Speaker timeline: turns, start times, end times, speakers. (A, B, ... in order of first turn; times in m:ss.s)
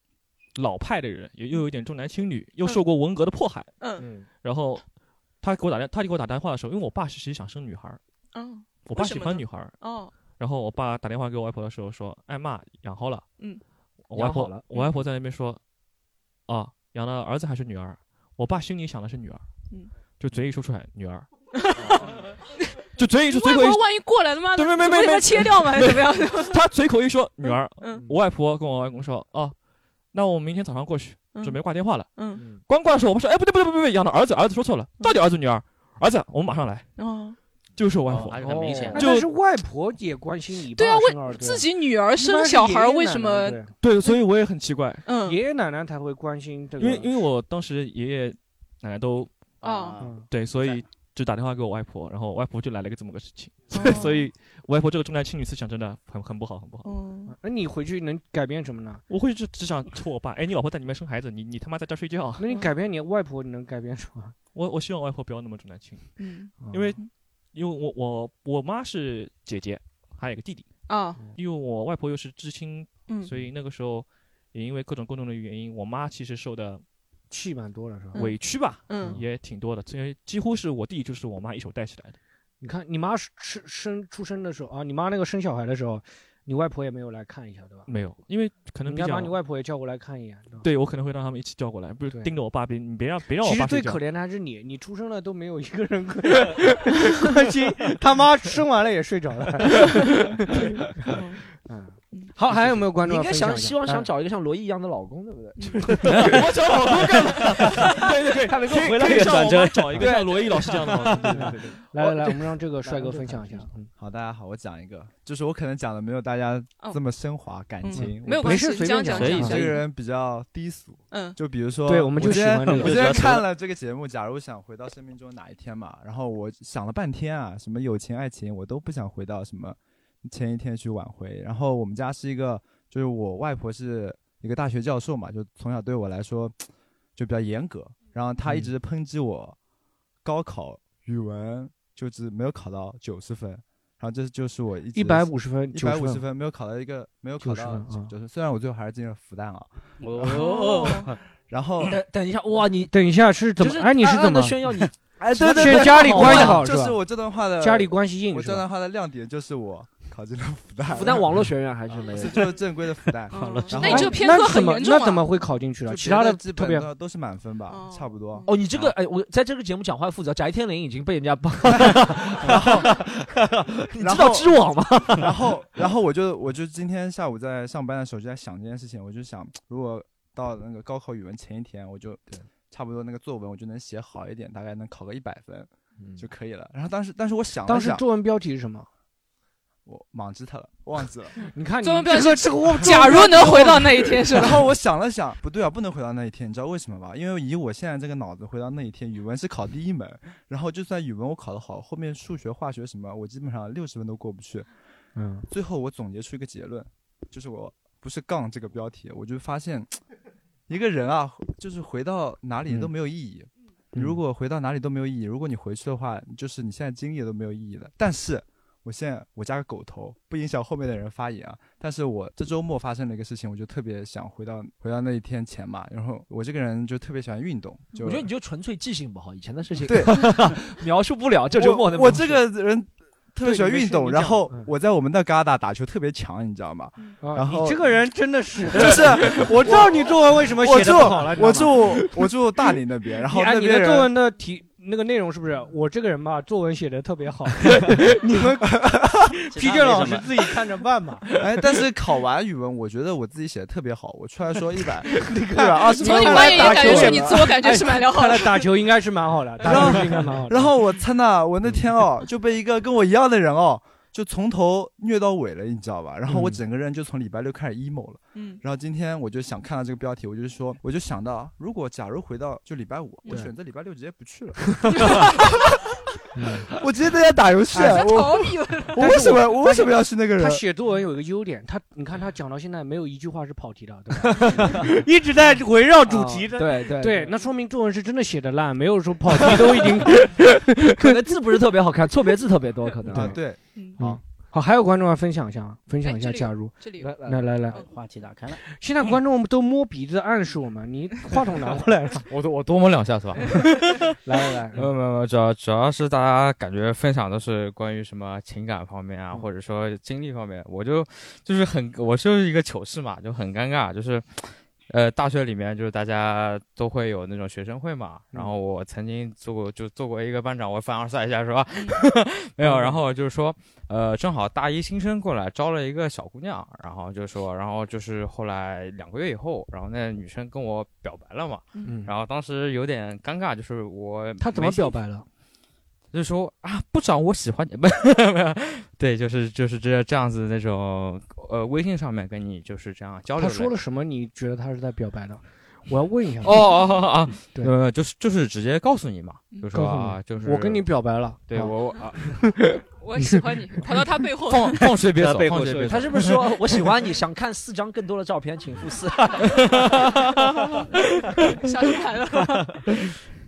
0:00.5-0:03.8 A
0:03.8-0:04.1 B
0:04.0-0:04.2 C
0:04.4-0:04.8 A
0:05.4-0:08.0 A
0:08.3-0:10.2 B
0:08.8-0:13.3 A
0:13.4-0:13.6 B
0:14.1-0:15.6 A
0:14.1-0:14.6 D
0:16.5-0:19.4 A
0:20.1-0:21.4 A
0:21.5-0:26.6 B
0:23.0-0:29.5 A
0:27.4-0:28.1 B
0:30.1-0:36.9 A
0:31.3-0:32.5 B
0:37.0-0:37.4 B
0:37.8-0:39.3 A
0:38.1-0:39.0 E
0:38.9-0:43.7 C
0:40.7-0:44.2 B
0:43.8-0:45.0 A
0:45.0-0:45.4 B
0:45.2-0:47.1 C
0:46.8-0:49.3 A
0:49.6-0:50.8 E
0:49.6-0:50.2 B
0:50.0-0:50.2 C
0:50.3-0:56.9 A
0:53.7-0:54.3 B
0:56.8-0:57.3 B
0:57.3-0:59.0 C
0:59.1-1:02.4 A
1:02.4-1:04.3 C
1:04.5-1:16.8 A
1:06.2-1:07.1 B
1:06.6-1:06.9 C
1:10.8-1:11.3 B
1:13.1-1:13.3 B
1:17.3-1:18.4 C
1:18.1-1:19.2 B
1:18.1-1:22.2 A
1:18.9-1:19.2 C
1:22.6-1:27.9 C
1:27.8-1:29.4 A
1:28.8-1:30.6 C
1:30.6-1:34.0 A
1:32.1-1:32.3 C
1:33.4-1:44.1 C
1:41.1-1:41.4 B
1:42.5-1:53.6 D
1:45.6-1:45.9 B
1:46.2-1:51.7 A
1:47.4-1:47.9 E
1:48.7-1:50.2 E
1:51.3-1:53.9 C
1:54.0-1:58.8 F
1:57.8-1:59.8 B
1:57.9-1:59.7 C
1:59.1-1:59.7 E
1:59.4-2:16.6 F
2:01.1-2:01.4 B
2:01.8-2:03.1 C
2:02.6-2:03.5 E
2:17.2-2:19.6 F
2:18.4-2:18.7 C
2:20.2-2:30.4 F
2:24.9-2:26.2 C
2:27.4-2:28.1 C
2:30.0-2:31.2 E
2:30.3-2:31.1 B
2:31.5-2:31.9 F
2:31.8-2:33.0 D
2:32.9-2:34.6 C
2:33.6-2:36.7 D
2:35.4-2:38.7 C
2:35.4-2:41.5 F
2:40.9-2:42.6 D
2:42.1-2:44.2 F
2:43.3-2:45.3 B
2:43.4-2:43.8 E
2:43.8-2:46.9 C
2:45.9-2:48.5 F
2:47.7-2:48.5 B
2:48.5-2:55.3 D
2:51.7-2:52.9 F
2:54.0-3:08.0 F
3:06.0-3:06.2 D
3:07.7-3:08.9 C
3:09.8-3:11.4 F
3:11.5-3:14.4 C
3:11.8-3:14.6 B
3:14.3-3:24.7 F
3:25.1-3:25.5 C
3:25.5-3:30.0 F
3:30.7-3:48.3 F
3:33.9-3:34.2 C
3:48.0-3:52.4 D
3:49.8-3:50.5 F
3:51.6-3:57.9 F
3:53.4-3:54.7 C
3:57.2-4:02.0 C
3:58.7-4:04.1 F
4:03.3-4:11.5 C
4:09.4-4:10.2 E
4:11.4-4:17.5 F
4:15.1-4:20.8 C
4:16.0-4:18.7 B
4:19.6-4:35.2 F
4:26.3-4:26.6 C
4:28.3-4:28.6 B
4:34.9-4:35.4 B
4:36.3-4:36.7 C
4:36.7-4:40.6 F
4:37.7-4:38.0 C
4:37.7-4:39.3 B
4:38.9-4:51.2 C
4:44.2-4:44.9 D
4:46.0-4:47.4 D
4:49.4-4:53.5 D
4:53.1-4:57.8 C
4:53.1-4:54.2 F
4:53.7-4:54.0 B
4:56.0-4:57.2 B
4:57.0-4:57.5 D
4:57.9-4:58.6 E
4:58.6-5:02.2 C
5:02.3-5:04.2 G
5:04.2-5:04.9 C
5:04.7-5:35.0 G
5:22.6-5:23.0 C
5:31.7-5:32.0 B
5:31.8-5:32.1 C
5:34.4-5:35.2 C
5:36.1-5:43.8 G
5:43.4-5:46.7 C
5:46.4-5:52.7 G
5:49.7-5:52.5 C
5:53.0-5:54.8 B
5:54.4-5:56.4 G
5:54.8-5:56.3 E
5:55.8-6:00.8 D
5:59.5-6:00.0 G
6:01.6-6:02.8 B
6:02.3-6:02.8 D